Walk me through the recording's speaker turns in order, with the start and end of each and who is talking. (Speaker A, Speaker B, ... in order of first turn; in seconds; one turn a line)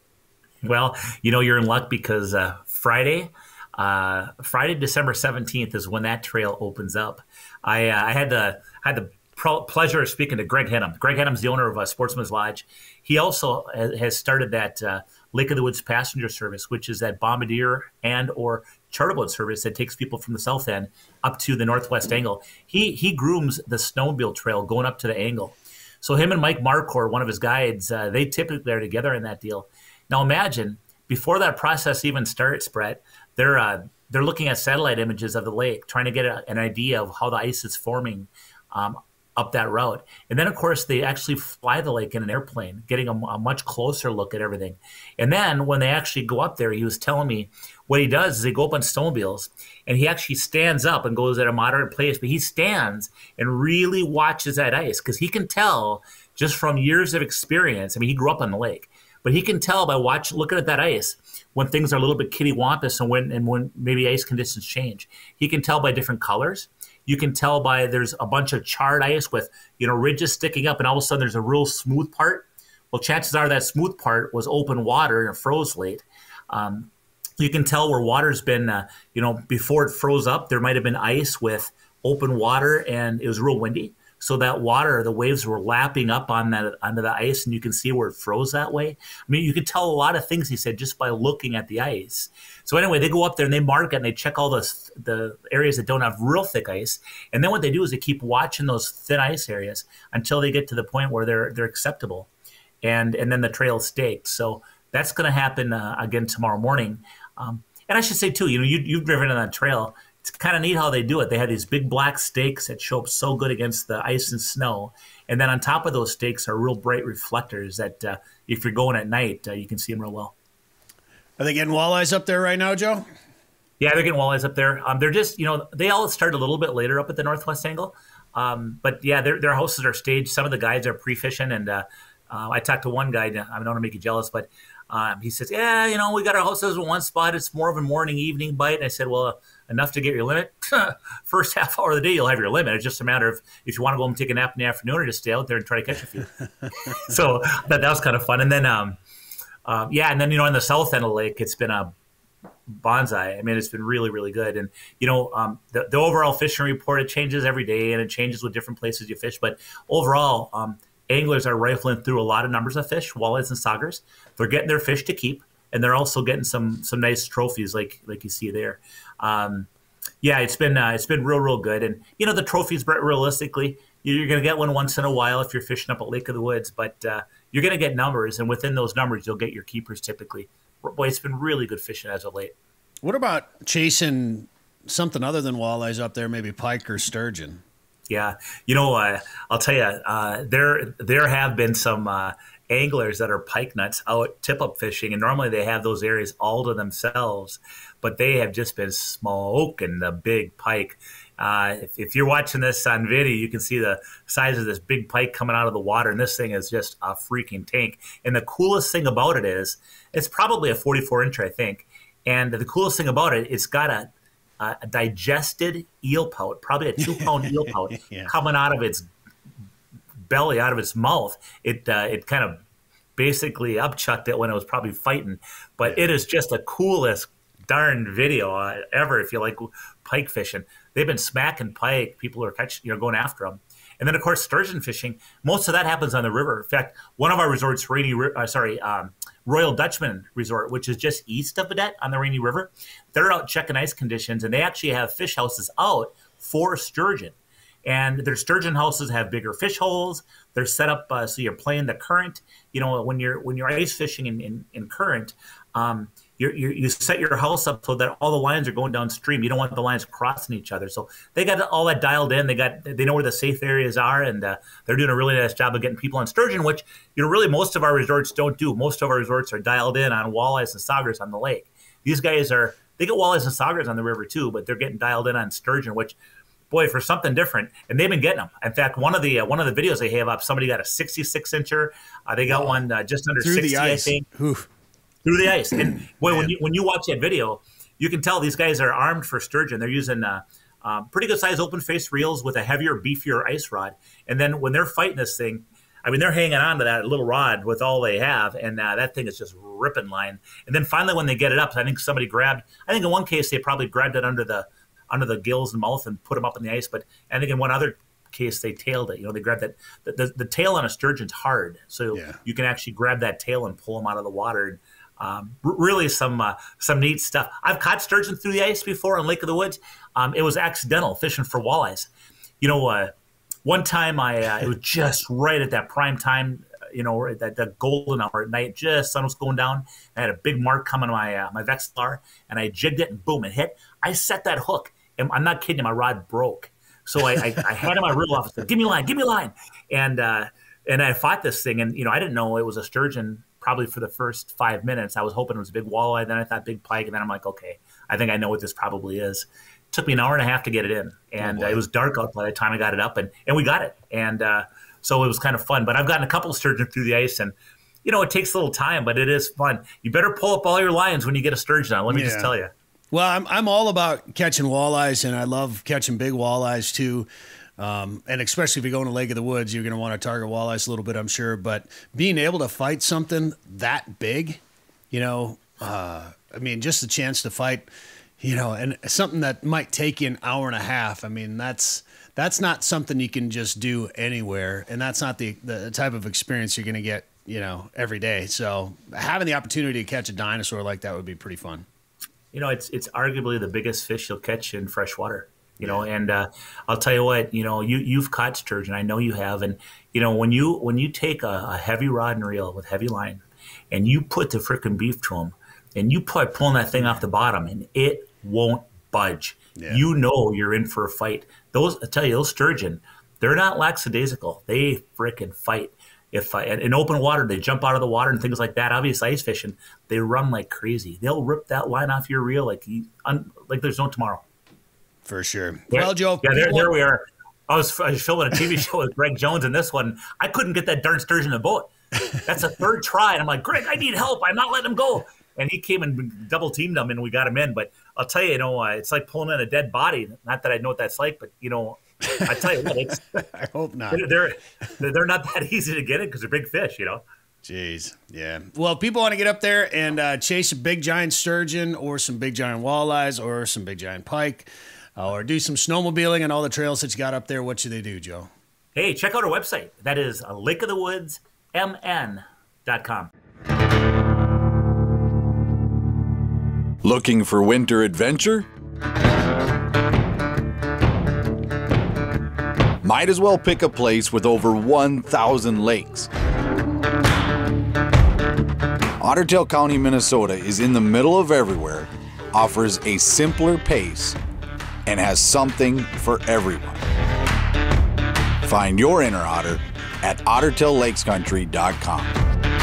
Speaker A: 0.6-102.3
Speaker A: 102.8-120.3
Speaker B: 121.4-123.1
Speaker A: 123.8-149.0
Speaker A: 149.7-151.9
Speaker A: 152.8-169.7
Speaker A: 170.2-182.5
Speaker B: 183.0-187.6
Speaker A: 188.1-214.1
Speaker A: 214.6-219.1
Speaker B: 217.0-218.3
Speaker A: 220.3-222.6
Speaker A: 223.2-276.2
Speaker A: 276.7-284.3
Speaker B: 282.5-282.8
Speaker B: 283.4-284.7
Speaker A: 285.2-322.1
Speaker B: 286.2-286.5
Speaker B: 312.1-312.4
Speaker A: 322.6-323.1
Speaker A: 323.6-362.7
Speaker B: 351.4-351.8
Speaker B: 362.1-362.5
Speaker B: 363.1-391.9
Speaker A: 392.5-424.4
Speaker B: 395.8-396.1
Speaker B: 409.8-410.0
Speaker B: 425.2-426.9
Speaker A: 425.9-443.4
Speaker B: 442.3-444.3
Speaker A: 444.1-447.2
Speaker B: 447.6-458.5
Speaker A: 458.9-463.3
Speaker C: 467.0-468.7
Speaker C: 473.0-476.3
Speaker C: 479.2-484.4
Speaker C: 485.1-487.0
Speaker C: 488.6-492.4